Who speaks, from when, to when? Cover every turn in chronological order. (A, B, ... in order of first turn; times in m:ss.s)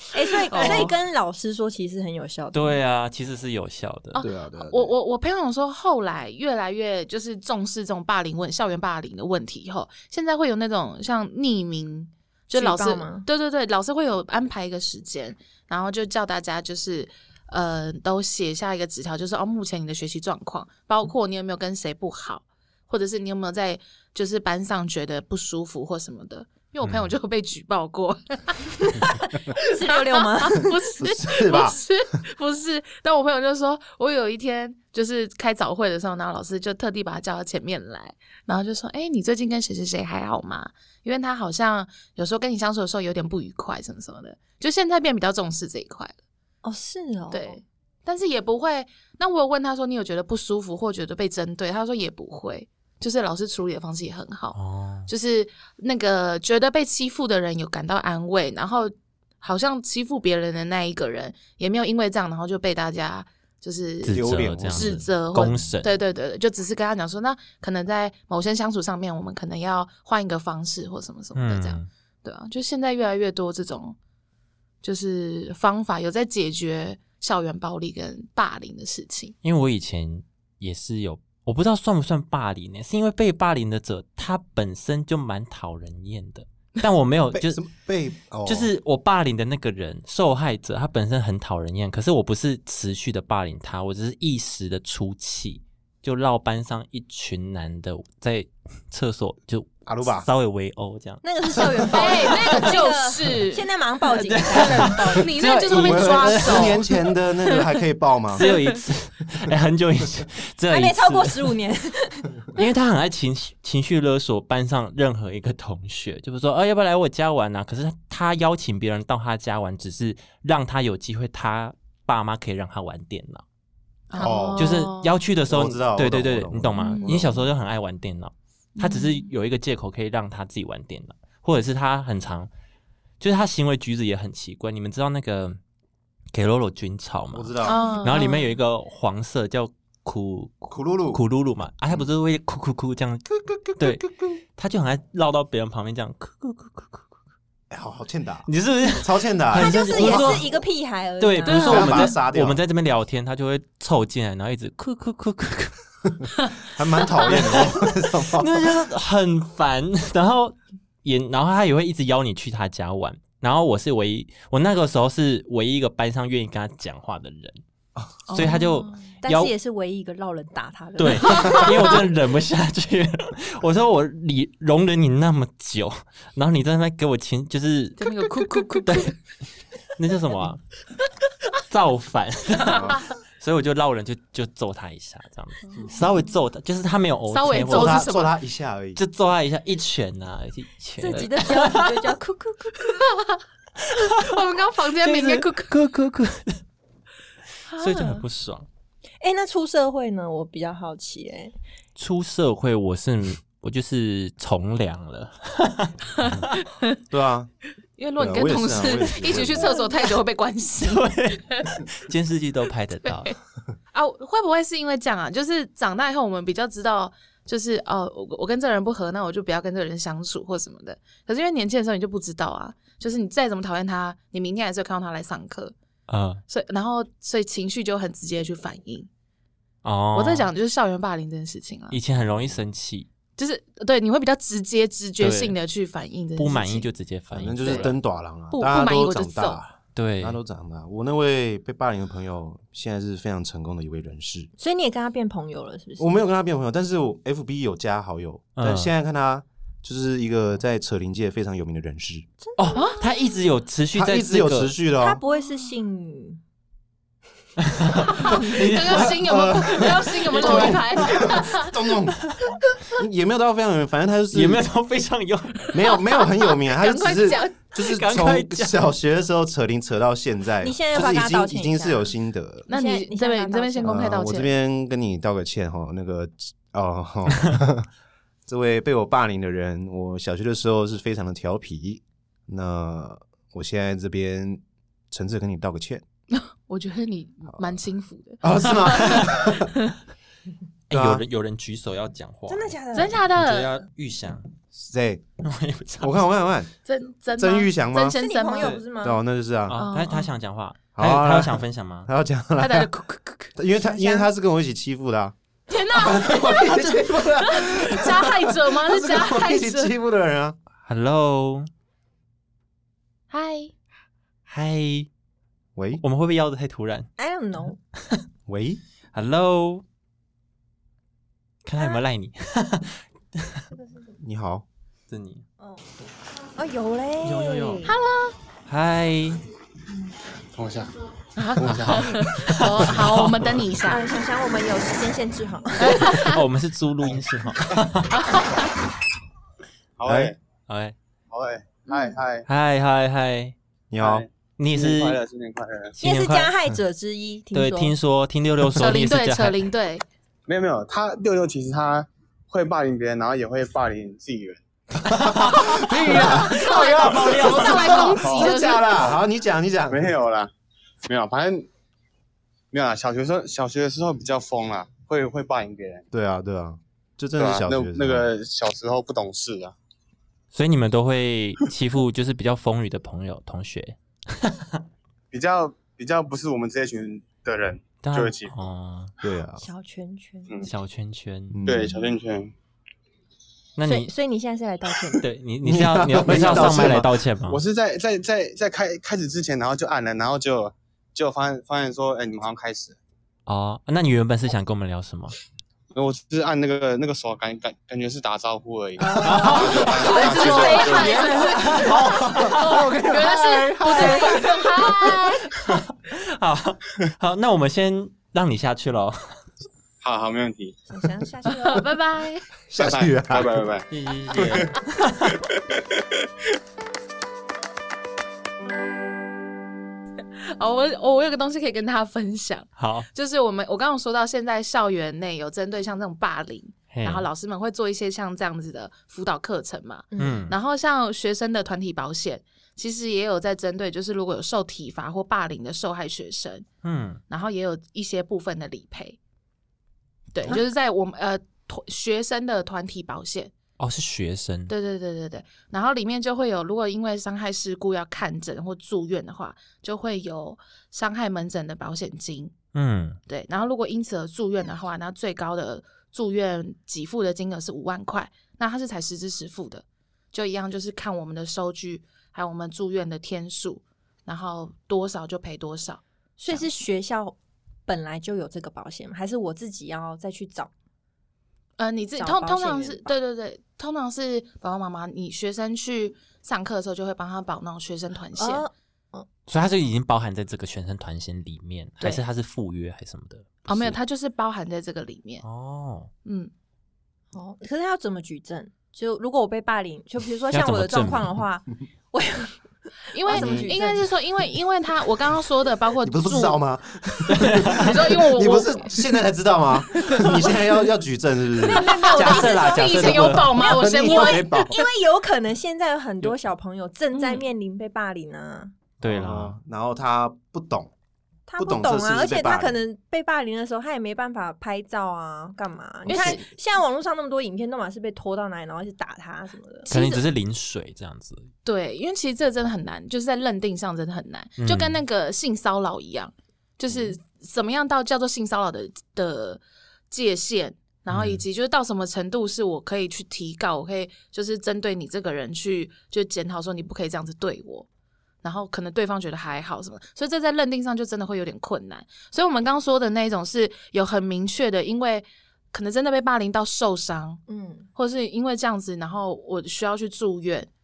0:00.1-0:02.8 A
0:00.5-0:00.9 B
0:00.5-0:00.9 C
0:02.5-0:04.2 C
0:04.2-0:46.2 B
0:04.2-0:04.9 D
0:12.5-0:13.3 A
0:29.5-0:30.7 A
0:31.0-0:31.8 D
0:46.6-0:47.6 A
0:47.3-0:54.6 B
0:54.5-0:55.1 C
0:55.1-1:14.0 B
1:04.0-1:06.0 C
1:04.1-1:05.0 D
1:11.3-1:11.9 C
1:14.8-1:19.3 B
1:19.4-1:27.6 C
1:27.3-1:28.7 D
1:28.4-1:42.4 C
1:39.8-1:40.3 D
1:41.2-1:45.6 A
1:41.9-1:43.6 B
1:44.1-1:46.8 C
1:44.7-1:46.8 B
1:45.7-1:48.4 D
1:48.3-1:51.6 C
1:48.4-1:48.7 B
1:50.7-1:52.6 A
1:52.5-2:03.4 C
2:04.1-2:05.1 B
2:04.2-2:04.8 D
2:04.6-2:12.5 C
2:05.5-2:07.4 D
2:06.8-2:07.1 B
2:08.8-2:09.3 B
2:13.2-2:15.6 C
2:16.3-2:23.2 C
2:17.3-2:18.0 D
2:17.6-2:18.4 B
2:20.7-2:21.2 D
2:23.3-2:24.4 D
2:23.8-2:24.0 C
2:24.6-2:27.1 C
2:27.7-2:30.5 D
2:28.5-2:30.5 C
2:29.5-2:32.0 A
2:31.2-2:35.8 C
2:31.5-2:32.6 D
2:31.5-2:32.1 B
2:36.6-2:38.7 D
2:37.2-2:47.6 C
2:48.3-2:49.0 B
2:48.3-2:49.5 C
2:49.2-2:52.0 A
2:51.0-2:59.1 C
2:58.0-2:59.1 B
3:00.0-3:00.6 C
3:01.6-3:08.1 C
3:02.7-3:03.0 D
3:07.3-3:08.3 B
3:07.6-3:09.0 D
3:09.0-3:12.2 C
3:11.0-3:12.9 A
3:12.9-3:13.4 B
3:14.1-3:15.7 B
3:15.0-3:16.6 C
3:17.7-3:18.2 B
3:17.8-3:18.7 C
3:19.2-3:21.5 A
3:22.0-3:26.1 C
3:26.2-3:27.0 B
3:27.1-3:27.5 D
3:28.0-3:31.7 B
3:28.2-3:29.8 D
3:30.8-3:33.3 C
3:33.0-3:33.3 B
3:33.9-3:45.7 B
3:46.1-3:46.4 C
3:46.5-3:49.1 B
3:49.8-3:50.5 C
3:50.1-3:52.0 B
3:51.9-3:53.1 C
3:53.4-3:56.9 B
3:55.2-3:55.6 C
3:56.4-3:58.0 C
3:57.3-4:04.5 D
3:57.6-3:57.9 B
3:58.5-3:59.6 B
3:59.9-4:00.4 C
4:04.6-4:06.1 A
4:06.0-4:12.2 D
4:08.6-4:08.9 C
4:12.4-4:13.1 A
4:12.6-4:14.7 C
4:12.7-4:13.0 B
4:13.9-4:15.2 D
4:14.9-4:16.4 A
4:17.6-4:19.2 C
4:18.1-4:21.7 B
4:18.3-4:22.3 D
4:20.3-4:20.8 C
4:22.9-4:24.7 D
4:24.3-4:25.8 C
4:25.7-4:32.7 D
4:26.4-4:27.6 B
4:27.7-4:28.8 C
4:30.6-4:32.1 A
4:32.7-4:34.1 A
4:32.7-4:34.5 B
4:33.8-4:37.9 D
4:38.5-4:46.0 D
4:46.3-4:49.9 B
4:47.5-4:47.8 D
4:48.4-4:49.7 D
4:49.0-4:49.4 C
4:50.9-4:54.5 C
4:50.9-4:51.2 D
4:52.5-4:53.2 A
4:52.9-4:53.7 B
4:54.7-4:55.2 D
4:55.4-4:56.2 C
4:56.0-4:56.7 D
4:56.8-4:58.8 B
4:57.4-4:58.2 D
4:58.1-4:59.2 A
4:58.8-4:59.8 D
4:59.7-5:02.1 C
4:59.7-5:00.3 B
5:00.9-5:02.9 D
5:02.6-5:03.5 B
5:03.5-5:05.3 D
5:03.8-5:04.3 A
5:05.7-5:09.9 B
5:05.9-5:10.6 D
5:10.8-5:11.7 C
5:13.3-5:13.7 B
5:14.5-5:15.1 C
5:15.8-5:16.0 D
5:16.0-5:17.1 C
5:17.2-5:17.8 A
5:18.5-5:18.8 D
5:19.1-5:19.8 C
5:21.6-5:23.6 C
5:23.7-5:24.1 A
5:24.2-5:24.6 D
5:25.1-5:25.4 C
5:26.5-5:27.9 A
5:27.2-5:27.8 C
5:27.8-5:28.3 B
5:28.7-5:29.4 C
5:30.5-5:30.9 E
5:31.4-5:34.1 B
5:31.6-5:33.6 C
5:33.9-5:36.3 A
5:35.8-5:36.4 B
5:35.8-5:38.2 C
5:38.1-5:38.7 B
5:40.0-5:40.4 E
5:40.1-5:40.3 D
5:40.7-5:41.0 C
5:41.3-5:42.4 E
5:42.5-5:43.5 C
5:43.9-5:44.2 D
5:44.0-5:46.0 E
5:44.6-5:45.2 C
5:46.0-5:46.5 C
5:46.0-5:47.9 A
5:47.5-5:49.6 C
5:48.7-5:50.0 B
5:50.5-5:54.6 E
5:55.1-6:00.1 D
5:55.1-5:58.1 C
5:56.4-5:59.1 B
5:59.9-6:00.5 E
6:01.0-6:01.7 E
6:02.7-6:06.0 E
6:06.1-6:08.3 D
6:07.4-6:09.7 E
6:10.5-6:14.8 C
6:15.3-6:18.5 E
6:18.0-6:19.1 C
6:19.2-6:19.7 D
6:19.6-6:20.6 A
6:20.6-6:21.6 C
6:21.5-6:22.0 D
6:21.6-6:22.5 E
6:21.7-6:22.0 A
6:23.8-6:24.1 C
6:23.8-6:25.2 A
6:25.2-6:27.6 C
6:25.6-6:27.1 D
6:26.3-6:26.8 A
6:27.5-6:33.0 E
6:33.5-6:35.3 C
6:35.9-6:41.3 E
6:39.1-6:42.5 C
6:39.1-6:40.5 D
6:39.2-6:41.9 A
6:40.0-6:45.5 B
6:41.4-6:44.6 D
6:43.9-6:44.6 A
6:45.6-6:49.4 C
6:50.0-6:50.8 E
6:50.9-6:51.9 A
6:51.5-6:52.5 B
6:52.7-6:53.7 D
6:52.7-6:54.8 E
6:53.9-6:55.4 C
6:55.3-6:56.0 E
7:00.6-7:16.6 B
7:02.8-7:03.1 C
7:06.9-7:07.3 C
7:10.1-7:10.5 A
7:10.2-7:10.5 C
7:16.8-7:17.2 C
7:17.3-7:19.2 B
7:20.3-7:23.5 B
7:23.8-7:24.7 C
7:24.7-7:32.5 B
7:32.7-7:33.2 C
7:33.3-7:46.7 B
7:46.4-7:47.3 A
7:47.9-7:50.7 A
7:51.8-7:58.6 B
7:52.2-7:53.1 A
7:58.4-7:59.3 A
7:59.5-8:04.0 C
8:03.7-8:05.4 B
8:05.4-8:06.1 C
8:06.2-8:06.5 B
8:07.3-8:12.6 A
8:10.5-8:11.3 C
8:13.1-8:16.6 B
8:13.2-8:14.0 A
8:13.3-8:13.7 D
8:16.0-8:24.8 D
8:17.3-8:17.8 C
8:17.7-8:18.9 B
8:21.6-8:28.7 A
8:21.7-8:24.8 B
8:22.2-8:23.6 C
8:29.0-8:29.6 C
8:29.0-8:30.9 D
8:31.5-8:39.9 A
8:31.6-8:32.8 D
8:36.1-8:36.4 B
8:39.9-8:40.2 B
8:39.9-8:41.5 C
8:41.6-8:57.9 B
8:44.6-8:45.0 C
8:51.1-8:51.4 C
8:58.4-9:07.4 B
9:07.5-9:07.9 A
9:08.0-9:10.7 B